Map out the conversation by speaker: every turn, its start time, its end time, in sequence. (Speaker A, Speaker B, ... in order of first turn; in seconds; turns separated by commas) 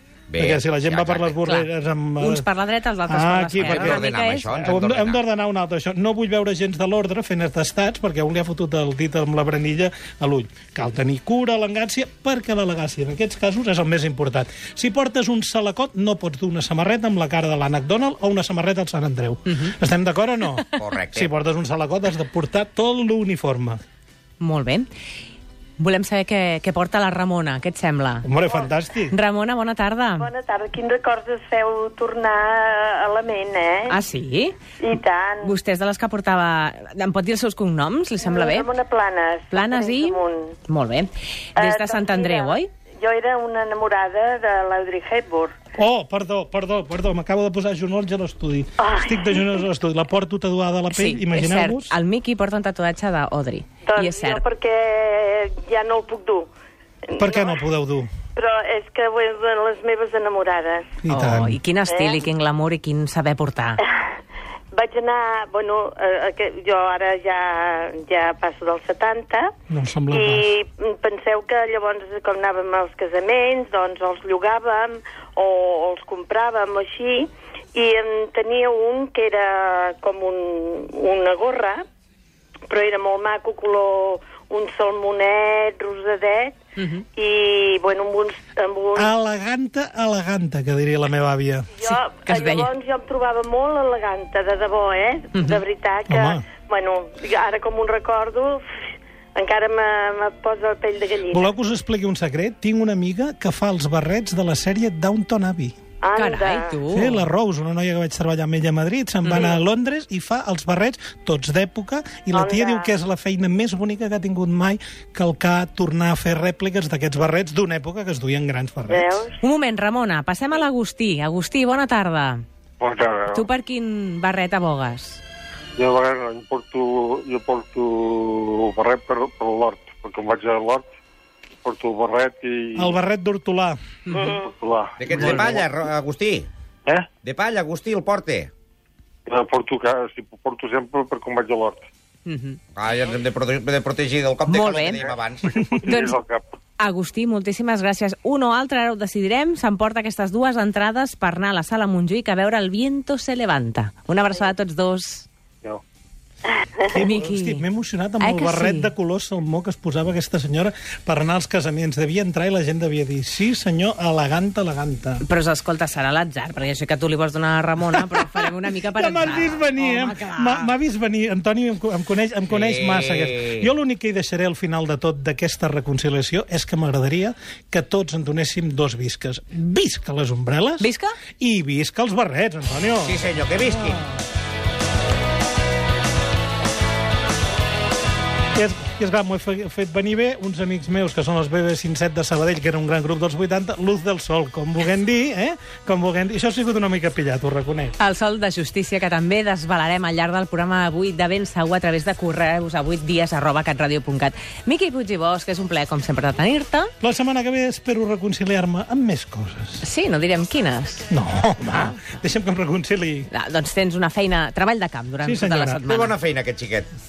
Speaker A: 0.3-1.4, Speaker B: 0.4-2.5, Speaker C: 1.4-4.5, Speaker B: 3.1-23.8, Speaker A: 3.6-5.2, Speaker A: 20.7-21.3, Speaker C: 24.4-24.9, Speaker C: 25.8-28.2, Speaker B: 28.2-29.1, Speaker C: 29.1-30.3, Speaker D: 30.2-33.9, Speaker C: 33.9-34.5, Speaker D: 34.8-35.5, Speaker C: 35.4-38.7, Speaker D: 38.2-40.5, Speaker C: 39.5-42.7, Speaker D: 41.5-45.5, Speaker B: 45.8-51.9, Speaker D: 48.8-49.6, Speaker C: 50.9-54.4, Speaker D: 53.8-56.5, Speaker D: 57.1-57.6, Speaker B: 57.2-58.1, Speaker D: 58.3-60.9, Speaker B: 61.0-61.6, Speaker C: 61.1-63.8, Speaker D: 61.9-62.2, Speaker D: 64.7-69.5, Speaker B: 69.7-70.5, Speaker D: 70.1-81.8, Speaker D: 82.7-86.6, Speaker C: 86.8-87.0, Speaker D: 87.2-89.1, Speaker B: 89.0-91.7, Speaker D: 91.8-98.6, Speaker C: 91.8-92.7, Speaker C: 95.3-95.6, Speaker B: 96.1-96.4, Speaker D: 99.3-101.5, Speaker B: 101.3-105.8, Speaker D: 106.0-106.8, Speaker C: 106.1-107.2, Speaker B: 106.9-119.2, Speaker C: 109.2-109.5, Speaker D: 112.3-112.9, Speaker D: 118.9-119.3, Speaker C: 119.4-122.4, Speaker E: 122.8-123.5, Speaker C: 123.3-125.2, Speaker E: 125.8-130.8, Speaker E: 131.6-133.0, Speaker B: 132.8-133.8, Speaker D: 134.1-134.5, Speaker E: 134.2-135.6, Speaker A: 135.0-136.5, Speaker C: 135.1-135.6, Speaker A: 137.2-138.5, Speaker E: 139.2-141.8, Speaker C: 142.2-142.6, Speaker A: 142.7-145.5, Speaker C: 144.5-145.0, Speaker E: 145.0-146.4, Speaker C: 145.8-146.2, Speaker C: 146.8-155.3, Speaker B: 156.8-165.2, Speaker C: 156.8-157.6, Speaker C: 158.2-158.9, Speaker C: 165.2-170.7, Speaker B: 168.9-180.9, Speaker A: 172.5-173.7, Speaker C: 180.8-181.1, Speaker B: 181.4-184.1, Speaker A: 183.0-184.0, Speaker B: 188.5-197.9, Speaker C: 198.0-206.9, Speaker B: 207.0-209.8, Speaker C: 209.8-211.1, Speaker B: 211.1-213.3, Speaker C: 213.3-216.2, Speaker B: 215.2-215.8, Speaker A: 215.8-216.9